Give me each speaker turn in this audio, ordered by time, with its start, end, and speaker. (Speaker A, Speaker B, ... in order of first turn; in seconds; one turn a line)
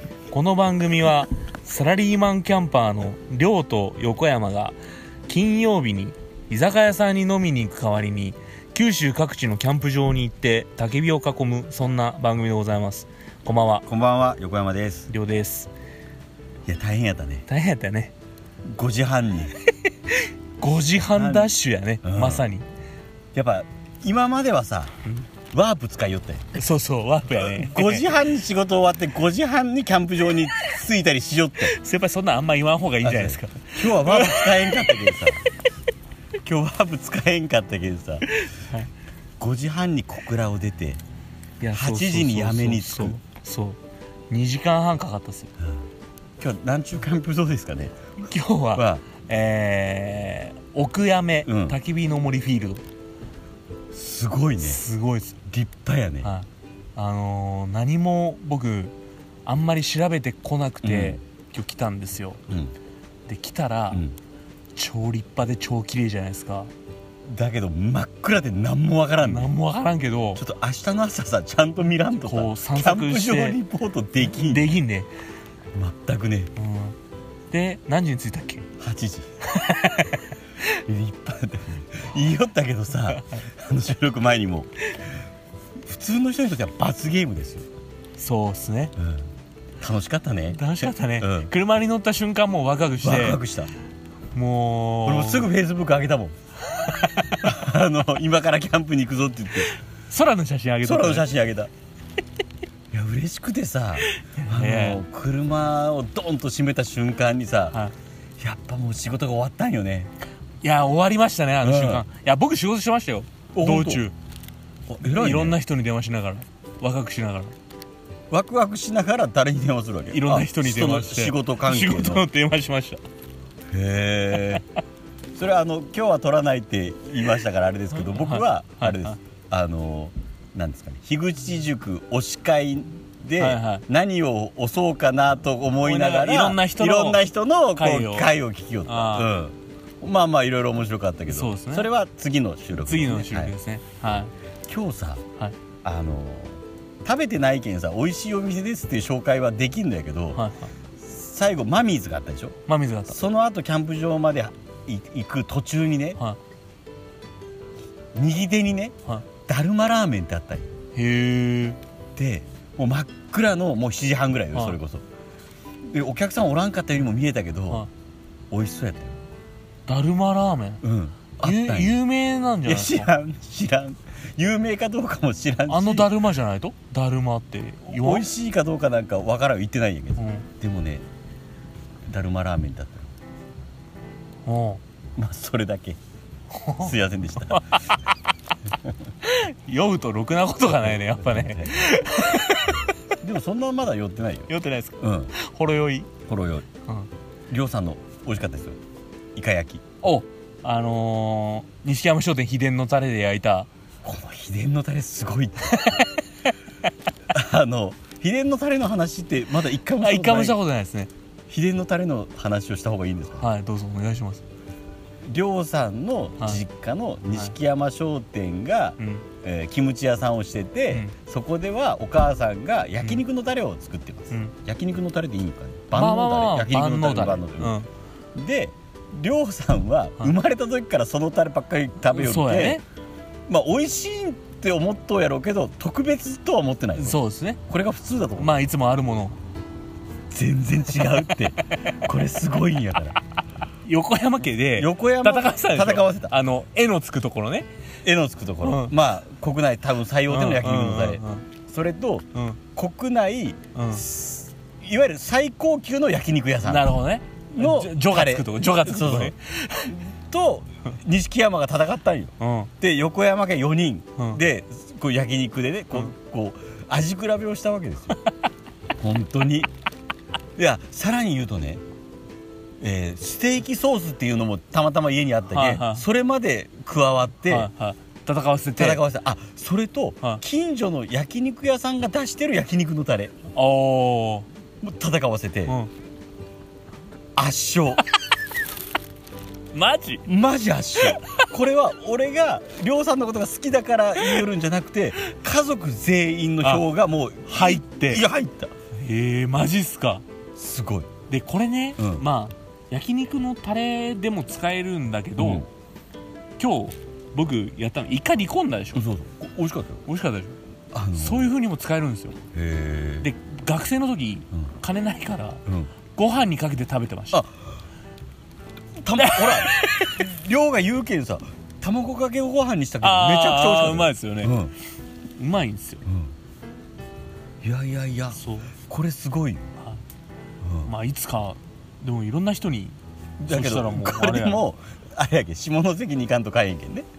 Speaker A: 0.3-13.8
Speaker B: 13.9-15.1
Speaker A: 15.1-15.7
Speaker B: 16.6-17.4
Speaker A: 17.5-18.1
Speaker B: 18.6-19.5
Speaker A: 19.6-22.6
Speaker B: 21.1-22.5
Speaker B: 23.3-24.9
Speaker B: 25.5-26.6
Speaker A: 26.5-28.0
Speaker B: 27.3-31.7
Speaker A: 31.6-35.1
Speaker B: 33.0-35.4
Speaker B: 36.4-38.2
Speaker A: 38.3-38.9
Speaker B: 39.4-41.0
Speaker A: 41.6-43.8
Speaker B: 41.7-43.2
Speaker A: 44.3-45.5
Speaker B: 46.4-48.0
Speaker A: 48.2-52.8
Speaker B: 48.7-49.0
Speaker B: 51.4-51.8
Speaker B: 53.9-54.8
Speaker A: 54.6-55.4
Speaker B: 55.5-56.3
Speaker A: 56.2-58.9
Speaker A: 59.5-62.4
Speaker B: 60.8-61.2
Speaker A: 63.3-64.0
Speaker A: 64.8-66.7
Speaker B: 67.3-69.5
Speaker A: 69.2-70.4
Speaker B: 70.4-74.7
Speaker A: 72.2-73.6
Speaker A: 74.2-75.1
Speaker B: 75.7-76.5
Speaker A: 76.6-77.0
Speaker A: 77.5-78.7
Speaker B: 78.8-79.3
Speaker A: 79.5-80.4
Speaker B: 80.7-84.7
Speaker B: 85.8-87.6
Speaker A: 88.2-88.9
Speaker B: 89.0-89.3
Speaker B: 89.8-91.5
Speaker A: 90.5-93.4
Speaker B: 93.0-93.7
Speaker A: 94.3-95.5
Speaker B: 95.0-96.3
Speaker A: 96.7-97.5
Speaker B: 97.4-99.7
Speaker A: 99.6-101.2
Speaker B: 100.8-101.7
Speaker B: 102.9-107.8
Speaker A: 104.1-105.0
Speaker B: 108.4-110.1
Speaker A: 110.6-114.1
Speaker B: 111.6-112.0
Speaker B: 113.5-114.0
Speaker B: 114.9-115.6
Speaker A: 115.1-117.5
Speaker B: 118.3-122.2
Speaker A: 120.1-123.0
Speaker B: 123.7-124.6
Speaker B: 125.3-143.5
Speaker A: 127.9-129.2
Speaker A: 133.4-133.8
Speaker A: 135.8-138.3
Speaker A: 138.8-139.3
Speaker A: 141.3-141.9
Speaker A: 142.8-144.3
Speaker B: 144.7-145.2
Speaker B: 145.8-150.4
Speaker A: 150.3-150.7
Speaker B: 151.0-152.6
Speaker A: 152.7-153.2
Speaker B: 153.1-156.2
Speaker B: 158.1-158.9
Speaker B: 159.4-160.7
Speaker A: 160.9-161.8
Speaker B: 162.2-165.0
Speaker B: 165.9-167.8
Speaker B: 168.5-169.2
Speaker A: 169.9-170.8
Speaker B: 170.8-172.0
Speaker A: 171.4-173.1
Speaker B: 172.6-176.1
Speaker A: 175.7-178.3
Speaker B: 177.8-181.0
Speaker A: 180.2-180.5
Speaker B: 182.1-183.1
Speaker A: 184.4-184.8
Speaker B: 185.2-186.0
Speaker A: 186.5-186.9
Speaker B: 186.8-187.6
Speaker A: 187.4-188.0
Speaker A: 189.2-192.9
Speaker B: 190.6-191.8
Speaker B: 193.2-195.3
Speaker A: 194.5-196.1
Speaker B: 196.3-196.7
Speaker B: 197.5-198.8
Speaker B: 199.3-199.8
Speaker A: 200.0-203.7
Speaker B: 204.0-205.8
Speaker A: 205.7-206.1
Speaker B: 207.3-210.6
Speaker A: 210.0-211.1
Speaker B: 211.5-213.5
Speaker A: 213.4-214.4
Speaker B: 215.3-227.7
Speaker A: 219.0-219.2
Speaker A: 225.9-227.9
Speaker B: 228.3-232.8
Speaker A: 232.0-232.8
Speaker B: 233.5-238.6
Speaker A: 237.0-237.6
Speaker A: 238.4-239.3
Speaker B: 240.3-243.2
Speaker A: 241.0-241.2
Speaker A: 243.8-247.7
Speaker B: 244.7-246.3
Speaker B: 248.0-256.9
Speaker A: 248.6-248.9
Speaker A: 250.3-251.4
Speaker A: 252.3-252.6
Speaker A: 253.7-254.0
Speaker A: 256.6-259.9
Speaker B: 257.5-268.1
Speaker A: 262.4-262.7
Speaker B: 269.0-269.7
Speaker B: 270.6-271.8
Speaker B: 272.8-277.7
Speaker A: 275.5-276.0
Speaker A: 277.4-279.0
Speaker B: 278.8-283.3
Speaker A: 283.5-284.5
Speaker B: 284.8-285.8
Speaker B: 287.4-288.0
Speaker A: 289.7-290.2
Speaker B: 290.2-298.7
Speaker A: 291.0-291.4
Speaker A: 294.2-294.4
Speaker A: 296.6-296.9
Speaker A: 297.5-298.2
Speaker A: 299.0-300.2
Speaker B: 300.6-301.1
Speaker A: 301.3-305.6
Speaker B: 302.0-302.2
Speaker B: 305.4-305.7
Speaker A: 306.6-309.1
Speaker B: 308.9-310.0
Speaker A: 310.0-310.6
Speaker B: 310.9-311.5
Speaker A: 311.1-312.4
Speaker B: 312.5-313.3
Speaker A: 313.2-315.6
Speaker B: 315.6-315.9
Speaker A: 316.1-317.4
Speaker B: 317.3-317.6
Speaker B: 319.0-324.7
Speaker A: 319.2-320.3
Speaker A: 323.0-324.6
Speaker A: 325.4-326.0
Speaker B: 326.1-326.3
Speaker B: 327.6-329.7
Speaker A: 328.3-328.7
Speaker B: 330.6-330.9
Speaker A: 330.9-334.6
Speaker B: 333.4-337.1